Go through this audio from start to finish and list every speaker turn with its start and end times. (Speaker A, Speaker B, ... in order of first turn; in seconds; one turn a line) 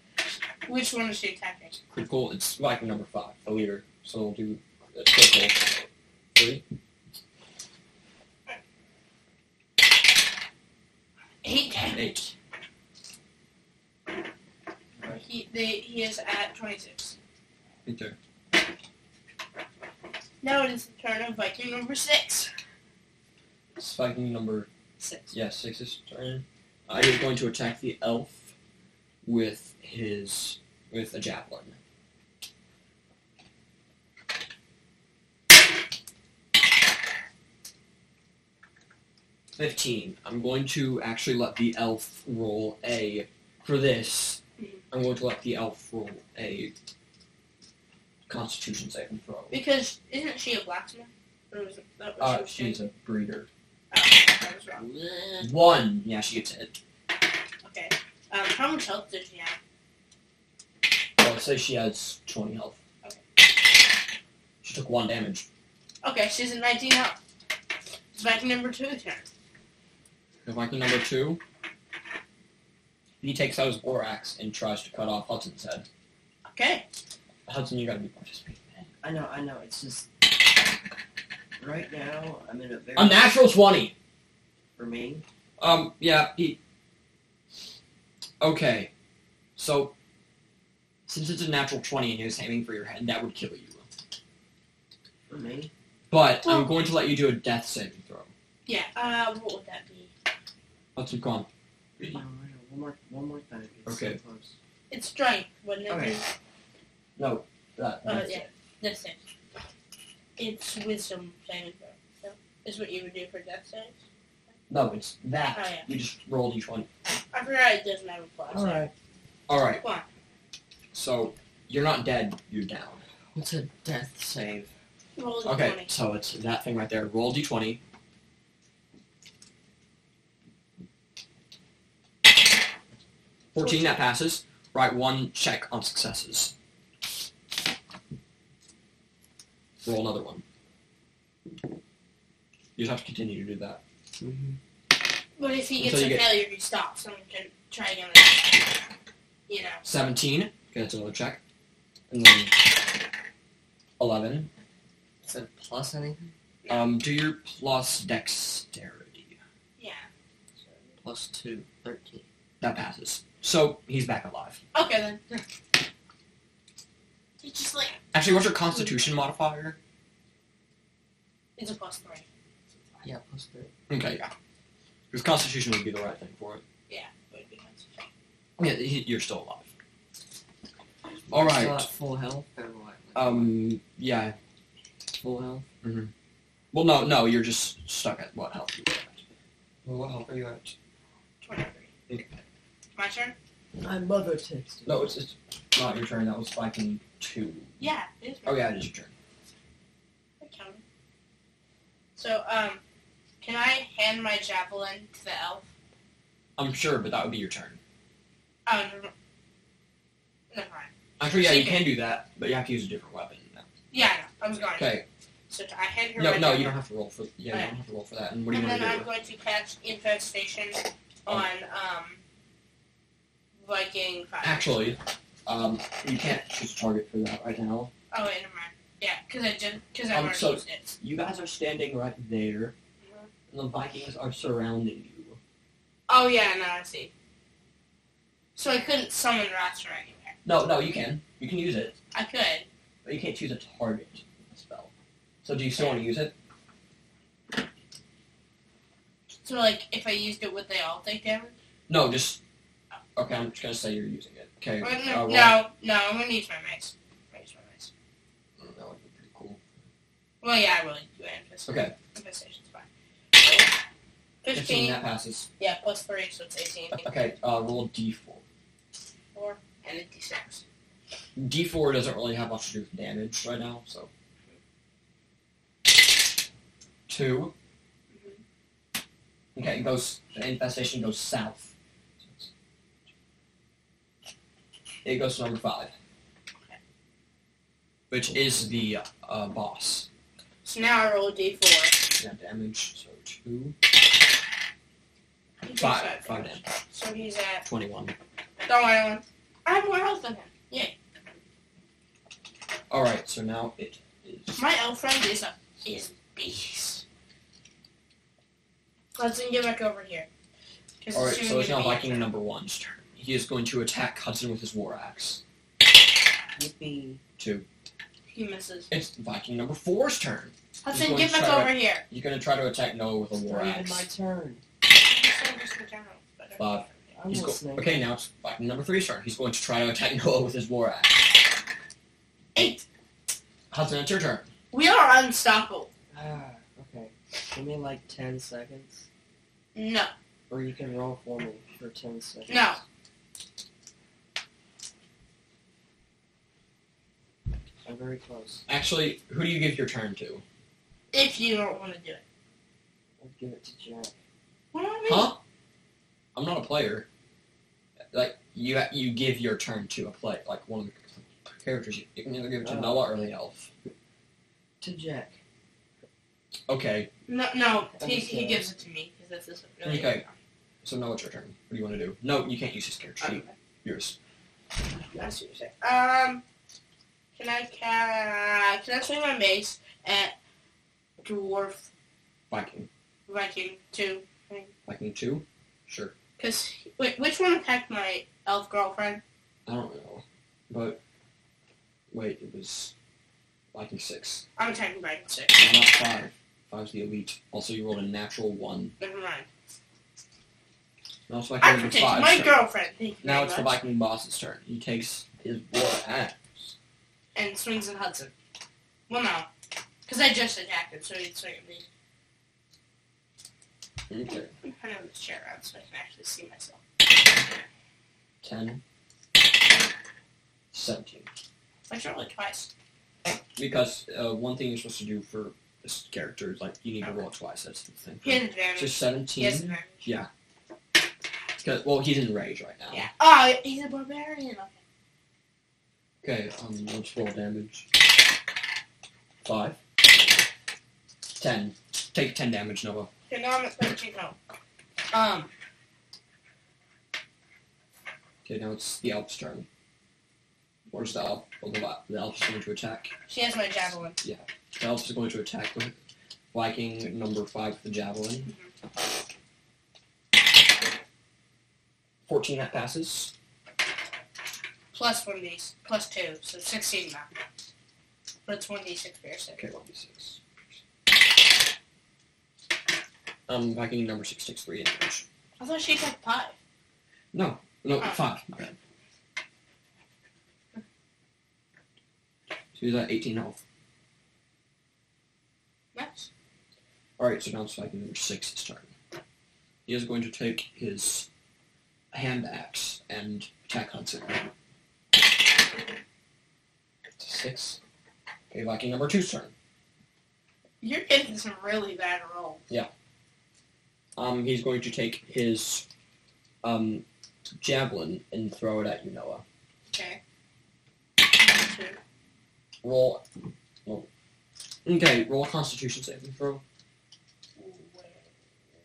Speaker A: 0.7-1.8
Speaker B: 1.9-6.6
Speaker A: 11.4-12.3
Speaker B: 11.9-12.3
Speaker A: 15.0-17.1
Speaker B: 17.9-18.2
Speaker A: 20.4-22.5
Speaker B: 23.8-24.7
Speaker A: 25.0-25.3
Speaker B: 25.3-28.5
Speaker B: 29.2-31.8
Speaker B: 39.6-46.7
Speaker B: 48.3-49.6
Speaker A: 49.5-52.8
Speaker B: 52.2-53.5
Speaker A: 53.9-54.9
Speaker C: 54.8-55.5
Speaker B: 55.4-56.8
Speaker A: 57.6-59.6
Speaker B: 61.2-62.8
Speaker B: 64.6-65.5
Speaker A: 66.0-67.2
Speaker A: 68.2-69.3
Speaker B: 70.5-71.4
Speaker B: 73.2-75.9
Speaker A: 76.5-76.8
Speaker B: 77.5-78.9
Speaker C: 79.0-80.1
Speaker C: 81.6-83.3
Speaker B: 83.0-83.9
Speaker C: 84.8-85.2
Speaker B: 85.6-86.6
Speaker B: 88.4-88.9
Speaker B: 89.6-89.9
Speaker B: 91.1-93.9
Speaker C: 95.3-95.7
Speaker B: 96.1-98.3
Speaker A: 96.4-96.7
Speaker A: 98.7-100.1
Speaker B: 101.0-101.5
Speaker C: 102.0-104.6
Speaker B: 103.9-104.2
Speaker A: 104.9-106.2
Speaker C: 105.9-106.2
Speaker B: 107.2-108.5
Speaker A: 108.0-109.2
Speaker A: 110.4-114.0
Speaker B: 114.7-116.9
Speaker A: 115.5-115.9
Speaker A: 117.3-118.8
Speaker C: 118.5-118.9
Speaker B: 119.5-119.8
Speaker B: 120.9-123.0
Speaker C: 123.3-124.7
Speaker A: 125.2-125.9
Speaker B: 125.5-127.8
Speaker B: 133.5-136.5
Speaker A: 133.6-134.0
Speaker B: 139.8-140.4
Speaker B: 142.8-143.8
Speaker C: 144.2-144.6
Speaker A: 145.4-148.7
Speaker B: 145.8-146.3
Speaker A: 149.5-149.8
Speaker B: 149.8-151.4
Speaker B: 152.1-152.6
Speaker B: 154.0-154.5
Speaker C: 155.2-156.3
Speaker A: 156.6-156.9
Speaker B: 156.7-159.4
Speaker A: 159.8-160.1
Speaker C: 161.0-162.2
Speaker B: 162.6-164.6
Speaker A: 164.7-165.4
Speaker A: 167.4-168.1
Speaker B: 168.1-169.8
Speaker A: 168.7-169.0
Speaker A: 171.6-172.2
Speaker C: 173.0-173.7
Speaker B: 173.9-174.3
Speaker B: 175.1-176.6
Speaker A: 176.9-177.9
Speaker B: 178.6-179.7
Speaker B: 181.3-181.9
Speaker C: 181.3-183.6
Speaker B: 183.2-184.4
Speaker C: 185.1-185.7
Speaker B: 185.8-186.1
Speaker B: 186.7-189.2
Speaker B: 189.8-190.8
Speaker A: 191.4-191.9
Speaker A: 193.0-193.4
Speaker C: 193.8-195.1
Speaker B: 194.9-197.8
Speaker A: 197.8-198.7
Speaker B: 198.5-199.1
Speaker A: 200.4-200.8
Speaker A: 202.2-202.8
Speaker A: 203.4-205.7
Speaker B: 206.6-207.8
Speaker A: 208.7-209.1
Speaker A: 210.5-211.9
Speaker B: 211.2-213.7
Speaker A: 213.9-215.0
Speaker B: 214.8-215.1
Speaker A: 215.5-216.8
Speaker B: 216.2-219.1
Speaker A: 218.5-222.2
Speaker A: 223.6-224.8
Speaker B: 224.4-227.9
Speaker A: 228.1-230.9
Speaker B: 230.1-232.8
Speaker A: 233.0-233.3
Speaker B: 233.5-235.4
Speaker A: 236.1-237.1
Speaker A: 238.6-240.3
Speaker B: 240.4-242.0
Speaker A: 242.1-242.7
Speaker B: 243.1-244.9
Speaker B: 245.4-246.3
Speaker A: 249.4-251.6
Speaker B: 251.9-252.4
Speaker B: 253.2-255.6
Speaker A: 254.8-257.9
Speaker B: 258.6-259.6
Speaker A: 260.4-263.7
Speaker B: 261.7-261.9
Speaker A: 264.4-265.0
Speaker B: 264.5-265.5
Speaker A: 265.6-267.1
Speaker B: 267.0-268.4
Speaker A: 269.3-270.6
Speaker B: 271.4-274.1
Speaker B: 277.1-277.5
Speaker A: 278.1-278.4
Speaker B: 279.6-282.5
Speaker B: 285.0-285.9
Speaker B: 288.1-290.1
Speaker A: 290.6-292.0
Speaker B: 292.2-293.8
Speaker A: 295.6-297.7
Speaker B: 295.8-296.6
Speaker B: 297.6-298.1
Speaker A: 298.7-300.9
Speaker B: 302.9-304.6
Speaker A: 304.6-307.0
Speaker A: 309.2-310.3
Speaker A: 311.0-312.3
Speaker B: 311.1-315.4
Speaker C: 316.6-317.2
Speaker B: 317.4-317.7
Speaker A: 318.3-318.9
Speaker B: 318.9-324.1
Speaker A: 320.8-322.0
Speaker C: 323.4-324.6
Speaker A: 324.9-327.1
Speaker B: 326.6-331.2
Speaker C: 327.1-328.1
Speaker A: 332.6-332.8
Speaker B: 333.7-334.5
Speaker A: 334.7-335.9
Speaker C: 336.1-339.1
Speaker A: 339.8-340.1
Speaker C: 340.5-342.8
Speaker A: 342.5-342.8
Speaker C: 347.8-348.6
Speaker B: 348.7-350.4
Speaker A: 351.1-352.2
Speaker C: 353.2-354.1
Speaker A: 354.7-355.3
Speaker B: 355.1-355.4
Speaker B: 356.4-357.1
Speaker B: 358.1-363.7
Speaker C: 362.6-363.2
Speaker C: 364.8-365.4
Speaker B: 366.7-367.1
Speaker A: 367.3-370.3
Speaker C: 368.0-368.7
Speaker B: 369.8-370.2
Speaker B: 370.8-374.2
Speaker A: 373.2-373.5
Speaker A: 375.1-376.4
Speaker A: 377.4-380.4
Speaker A: 381.2-381.9
Speaker B: 382.5-382.9
Speaker A: 383.3-384.7
Speaker B: 384.9-386.1
Speaker A: 386.4-389.2
Speaker B: 389.7-391.0
Speaker B: 392.1-392.9
Speaker B: 393.7-394.4
Speaker A: 394.6-395.7
Speaker B: 395.6-399.0
Speaker A: 399.0-399.5
Speaker B: 401.3-402.6
Speaker A: 401.6-403.7
Speaker B: 403.2-406.7
Speaker A: 407.4-408.3
Speaker A: 409.1-409.5
Speaker A: 410.1-411.9
Speaker B: 414.1-414.5
Speaker A: 414.6-416.8
Speaker B: 418.4-418.8
Speaker B: 420.7-421.3
Speaker A: 421.9-422.7
Speaker B: 423.6-430.3
Speaker A: 428.2-430.0
Speaker B: 431.6-433.1
Speaker A: 432.9-434.8
Speaker B: 436.2-437.9
Speaker B: 439.4-439.8
Speaker B: 441.4-443.1
Speaker A: 443.3-444.4
Speaker A: 445.1-445.5
Speaker B: 448.4-449.7
Speaker B: 450.9-453.1
Speaker A: 453.3-454.2
Speaker B: 454.2-456.0
Speaker B: 456.5-458.5
Speaker B: 462.3-463.3
Speaker A: 464.9-467.3
Speaker A: 468.5-469.6
Speaker B: 469.6-470.4
Speaker B: 473.5-475.3
Speaker A: 475.6-476.6
Speaker B: 477.3-478.8
Speaker B: 482.8-483.6
Speaker A: 485.9-486.3
Speaker B: 487.2-488.9
Speaker B: 489.9-491.3
Speaker B: 492.1-494.5
Speaker B: 497.2-497.8
Speaker B: 498.5-499.5
Speaker A: 500.8-502.6
Speaker B: 504.2-505.9
Speaker B: 506.6-507.1
Speaker B: 507.6-509.4
Speaker A: 509.9-510.2
Speaker A: 511.2-512.0
Speaker B: 512.8-513.2
Speaker B: 514.9-516.6
Speaker A: 517.6-518.3